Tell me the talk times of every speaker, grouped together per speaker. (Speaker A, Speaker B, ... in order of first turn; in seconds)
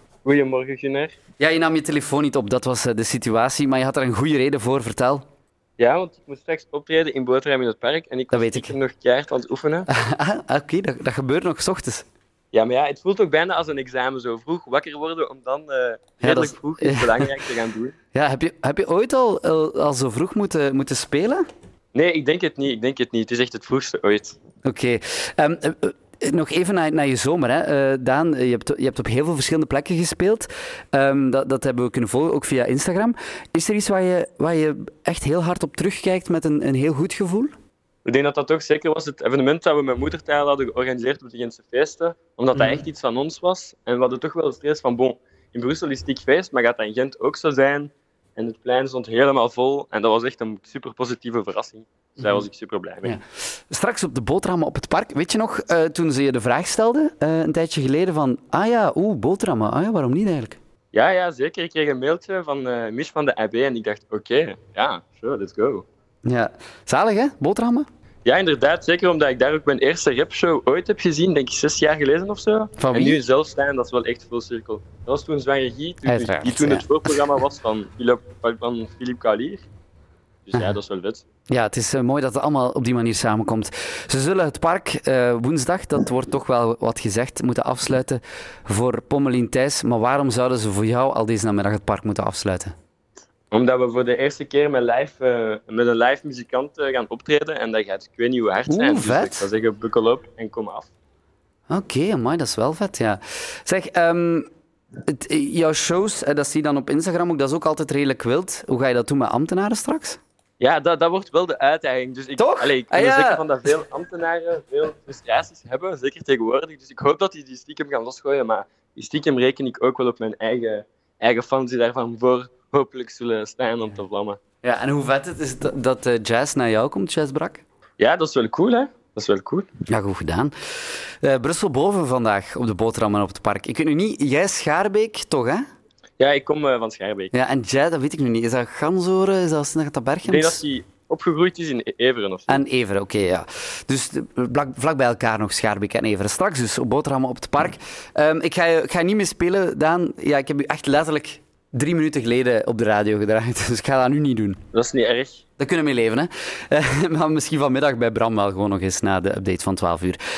Speaker A: 0.2-1.2, 5.8-9.9, 12.5-17.9, 21.9-24.4, 38.0-53.2, 60.9-65.8, 68.2-79.7, 80.5-81.2, 93.5-100.9, 110.6-124.4, 128.0-129.7, 136.2-137.3, 140.3-142.6, 154.7-155.4
Speaker B: 1.4-5.2, 8.3-8.7, 9.9-12.1, 16.2-17.3, 18.1-21.4, 24.6-37.5, 42.5-42.8, 53.0-60.6, 66.2-67.9, 72.8-73.2, 76.0-77.2, 81.5-92.7, 98.7-99.5, 101.7-104.5, 105.0-110.2, 112.4-113.4, 124.6-127.6, 129.9-130.5, 131.2-135.6, 137.3-140.6, 142.5-154.6, 155.6-160.2